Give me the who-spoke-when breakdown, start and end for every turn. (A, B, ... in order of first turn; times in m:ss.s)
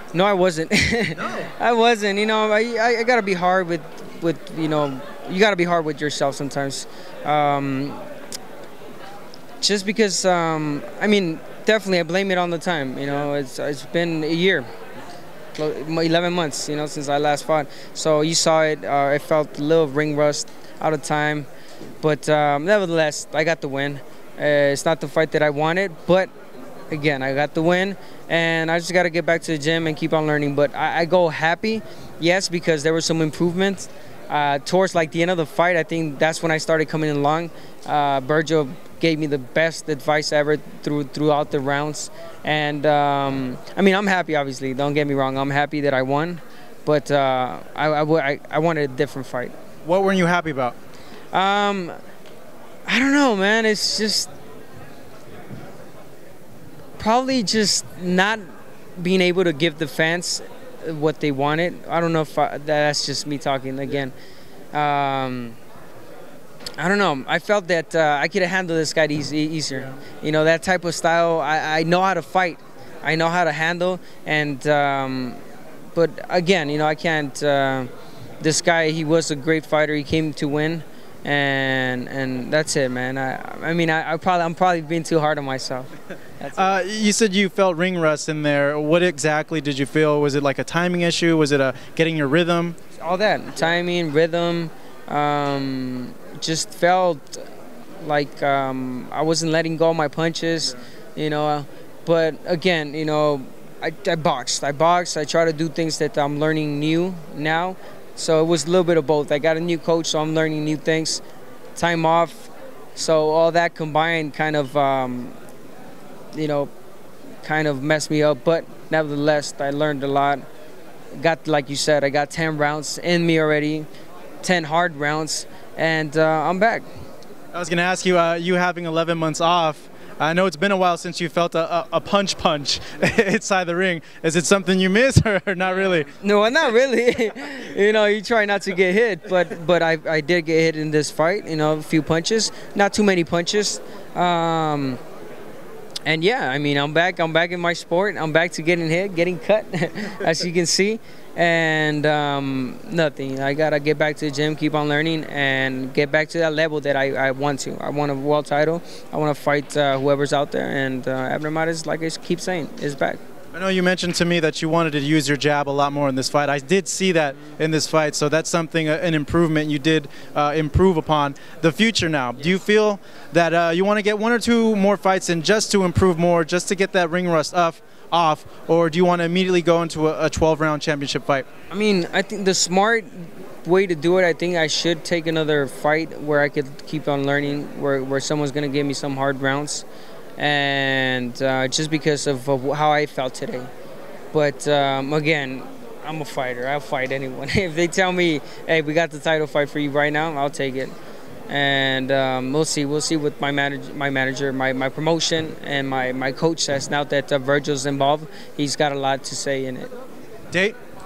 0:00.1-0:08.1 A
0:09.6-0:14.7 A
0:15.6-0:21.5 A
0:22.0-0:26.3 A
0:26.9-0:49.5 A
0:49.8-0:50.8 B
0:51.3-0:52.0 A
0:52.9-0:54.3 A
0:57.0-1:04.2 A
1:04.7-1:05.6 A
1:06.8-1:15.4 A
1:16.0-1:17.9 A
1:18.4-1:26.8 A
1:26.5-1:32.8 B
1:33.0-1:37.5 A
1:38.0-1:51.2 A
1:51.8-1:55.4 A
1:56.3-1:56.7 A
1:57.4-2:00.4 A
2:01.2-2:03.9 A
2:04.4-2:06.9 A
2:07.5-2:16.1 B
2:16.0-2:25.0 A
2:26.0-2:43.2 A
2:43.5-3:01.5 B
3:01.7-3:09.9 A
3:10.4-3:13.7 A
3:14.3-3:20.9 A
3:21.5-3:29.9 A
3:30.5-3:30.8 B